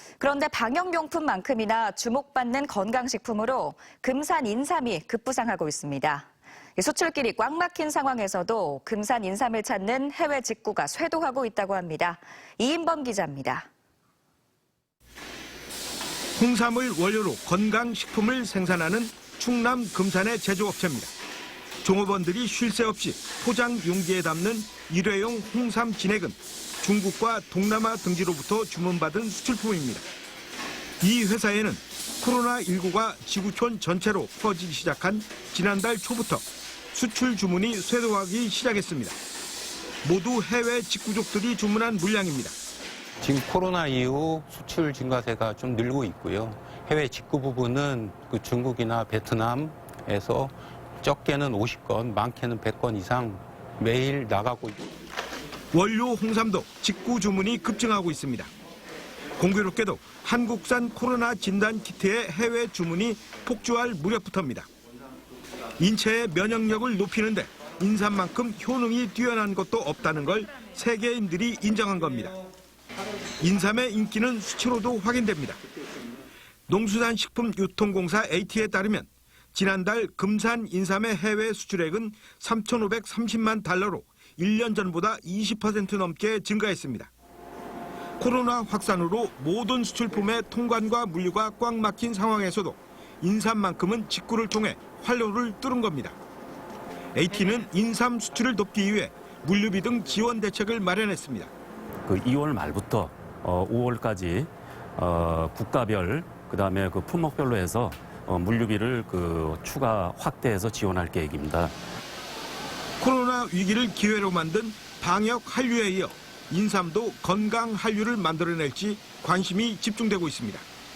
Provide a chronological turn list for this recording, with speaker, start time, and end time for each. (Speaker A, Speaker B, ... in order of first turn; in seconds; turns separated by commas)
Speaker A: 0.2-6.2, Speaker A: 6.8-13.7, Speaker B: 16.4-21.1, Speaker B: 21.8-30.1, Speaker B: 31.0-39.1, Speaker B: 40.0-42.5, Speaker C: 43.2-54.9, Speaker B: 55.7-58.5, Speaker B: 59.4-64.7, Speaker B: 65.8-72.3, Speaker B: 73.4-75.6, Speaker B: 76.7-87.1, Speaker B: 88.2-96.2, Speaker B: 97.1-101.5, Speaker D: 102.0-111.7, Speaker B: 113.0-120.6